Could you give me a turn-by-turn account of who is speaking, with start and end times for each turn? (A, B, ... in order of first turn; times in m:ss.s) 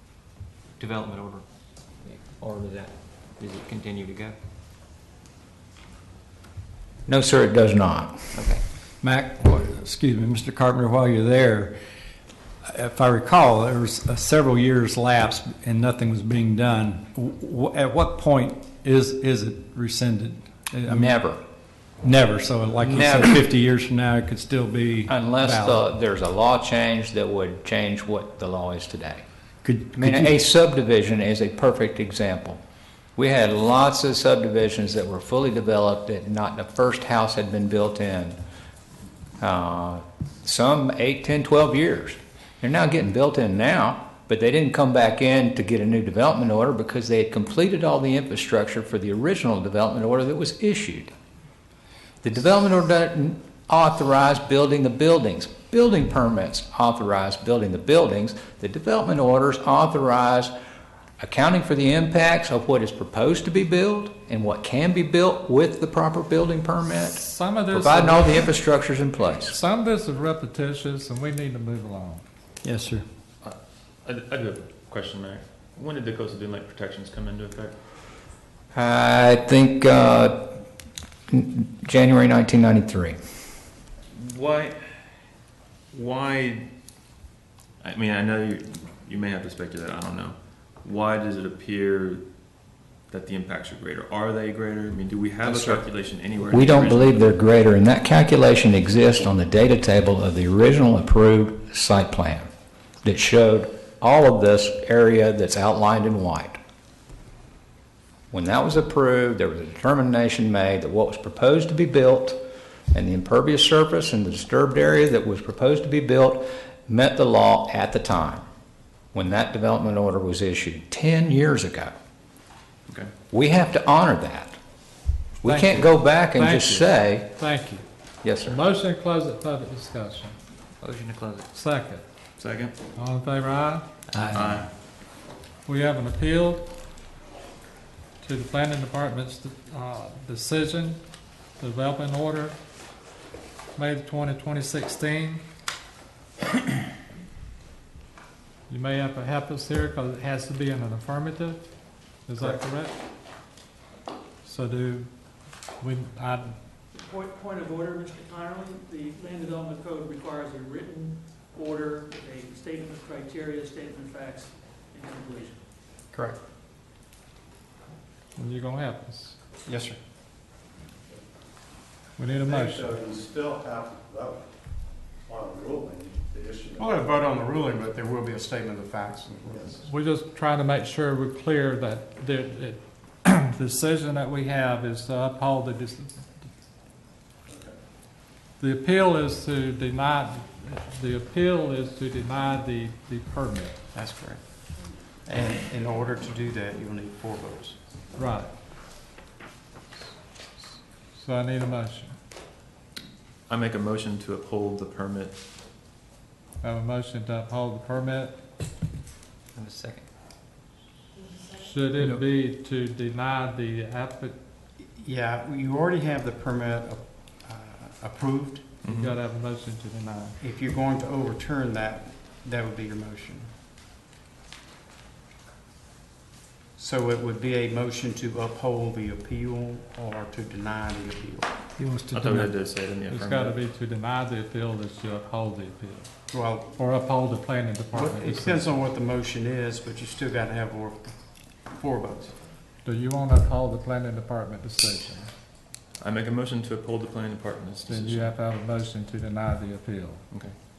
0:00.8-0:01.4 A
0:02.0-0:04.4 A
0:07.1-0:08.4 B
0:08.3-0:08.6 A
0:09.0-0:11.8 C
0:12.6-0:21.1 C
0:20.9-0:21.4 B
0:22.0-0:25.8 C
0:22.8-0:23.4 B
0:25.1-0:29.2 B
0:29.6-0:30.3 C
0:30.0-0:32.6 B
0:33.2-0:38.4 B
0:39.4-0:51.1 B
0:52.2-1:00.5 B
1:01.2-1:09.6 B
1:07.0-1:08.5 D
1:09.5-1:12.2 D
1:12.6-1:13.0 C
1:13.4-1:17.8 E
1:18.7-1:20.6 B
1:21.3-1:23.2 B
1:24.1-1:24.8 E
1:25.9-1:26.7 E
1:27.8-1:32.2 E
1:33.1-1:37.3 E
1:35.4-1:35.8 B
1:36.4-1:42.5 B
1:43.0-1:46.6 B
1:48.3-1:52.4 B
1:52.9-1:58.4 B
1:59.1-2:01.9 B
2:03.3-2:04.6 B
2:05.4-2:07.3 B
2:05.4-2:07.8 D
2:08.2-2:08.6 B
2:08.4-2:10.4 D
2:10.8-2:11.5 A
2:11.5-2:12.0 D
2:12.4-2:12.7 E
2:13.0-2:13.8 D
2:14.1-2:14.4 A
2:14.3-2:14.7 E
2:15.7-2:16.6 D
2:18.2-2:21.0 D
2:21.6-2:22.6 D
2:23.8-2:25.4 D
2:28.7-2:31.6 D
2:32.3-2:33.0 D
2:34.4-2:35.1 D
2:35.8-2:36.6 D
2:36.9-2:45.6 F
2:46.1-2:46.4 G
2:48.4-2:49.4 D
2:49.7-2:50.0 G
2:52.2-2:52.9 D
2:52.3-2:54.5 H
2:55.3-2:57.0 H
2:56.8-2:59.8 G
2:59.9-3:06.2 D
3:07.5-3:07.7 H
3:08.6-3:13.8 D
3:13.9-3:14.4 G
3:15.3-3:17.8 G
3:18.2-3:18.5 D
3:21.2-3:22.1 D
3:23.5-3:25.4 E
3:26.6-3:28.4 D
3:29.6-3:30.0 A
3:31.6-3:34.4 D
3:35.0-3:38.7 G
3:38.8-3:39.2 E
3:38.9-3:40.4 D
3:40.4-3:43.5 G
3:46.8-3:51.6 G
3:51.8-3:52.5 C
3:52.1-3:53.6 E
3:53.1-3:56.1 D
3:56.3-3:56.8 G
3:56.8-3:58.7 D
3:57.9-4:01.2 G
4:01.7-4:02.3 G
4:02.8-4:05.3 D
4:06.0-4:08.3 E
4:07.9-4:10.2 D